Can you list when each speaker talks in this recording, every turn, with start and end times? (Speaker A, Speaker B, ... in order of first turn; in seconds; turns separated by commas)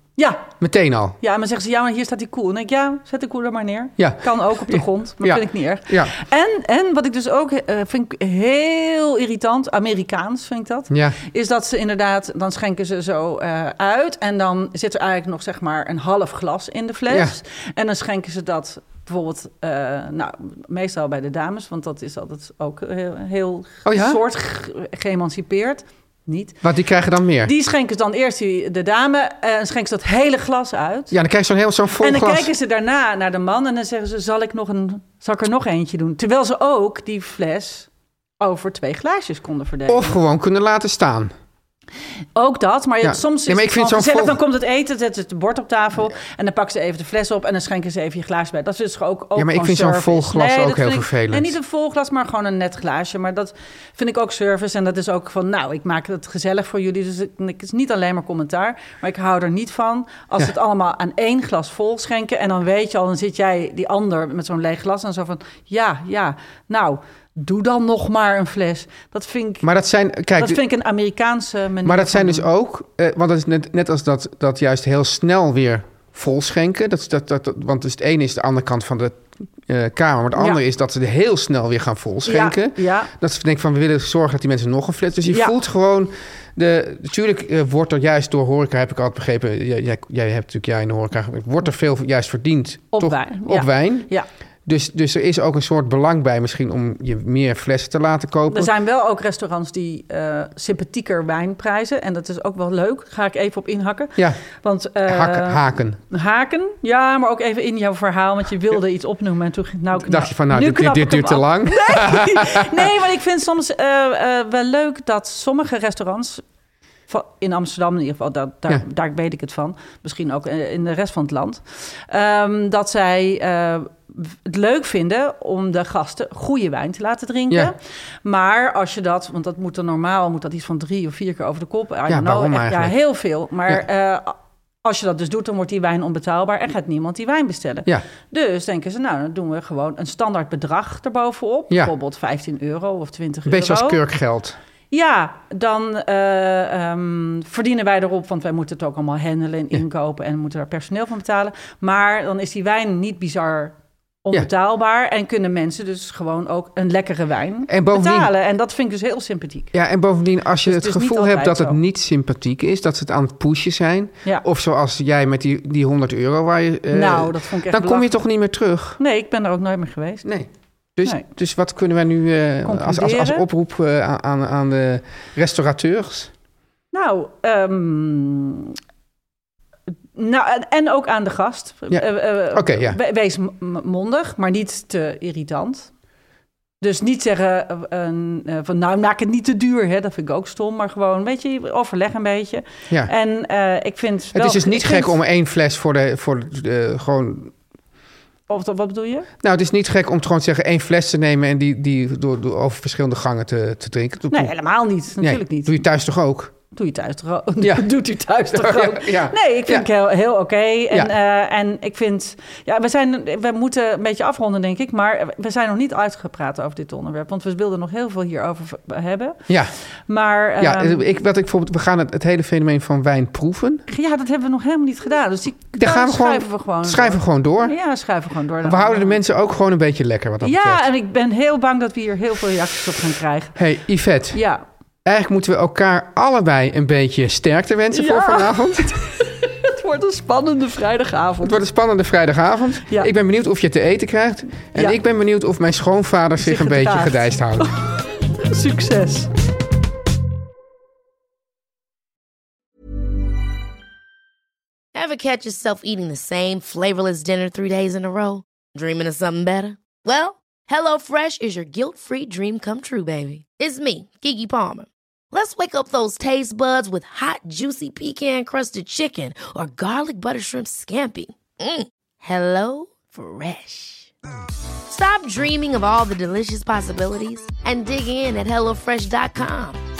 Speaker A: 0.2-0.5, Speaker B: 0.6-1.2, Speaker A: 1.2-26.6, Speaker B: 4.0-6.1, Speaker B: 10.9-11.2, Speaker B: 17.1-17.4, Speaker B: 23.8-24.2, Speaker B: 26.6-27.5, Speaker A: 27.4-31.1, Speaker B: 31.1-32.5, Speaker A: 32.0-37.9, Speaker A: 38.4-40.1, Speaker B: 39.9-41.3, Speaker A: 42.3-69.6, Speaker B: 43.0-44.4, Speaker B: 49.3-51.5, Speaker B: 69.6-70.6, Speaker A: 70.4-72.5, Speaker B: 71.8-94.1, Speaker A: 82.2-83.1, Speaker A: 85.3-85.5, Speaker A: 92.9-94.2, Speaker B: 94.7-98.7, Speaker A: 98.5-116.4, Speaker B: 105.1-106.0, Speaker B: 110.0-112.9, Speaker A: 117.1-144.0, Speaker B: 132.1-132.9, Speaker B: 143.4-144.6, Speaker A: 144.9-159.7, Speaker B: 157.7-158.3, Speaker B: 159.7-169.0, Speaker A: 160.6-161.8, Speaker A: 166.9-168.1, Speaker A: 169.0-170.2, Speaker B: 170.2-176.3, Speaker A: 172.6-173.4, Speaker A: 176.9-178.8, Speaker A: 180.1-185.9, Speaker B: 181.9-183.0, Speaker A: 186.8-195.1, Speaker B: 194.3-197.5, Speaker A: 198.5-199.3, Speaker B: 199.4-204.5, Speaker A: 204.3-205.8, Speaker B: 205.2-206.5, Speaker A: 206.7-219.4, Speaker B: 207.6-207.9, Speaker B: 208.5-209.8, Speaker A: 220.1-221.0, Speaker B: 220.6-223.8, Speaker A: 223.9-229.2, Speaker B: 225.7-227.7, Speaker B: 228.6-230.8, Speaker A: 230.4-233.5, Speaker B: 233.6-234.4, Speaker A: 234.3-234.6, Speaker B: 235.0-238.9, Speaker A: 237.9-241.6, Speaker B: 241.4-247.7, Speaker A: 246.4-249.3, Speaker C: 254.9-274.1, Speaker C: 274.9-279.8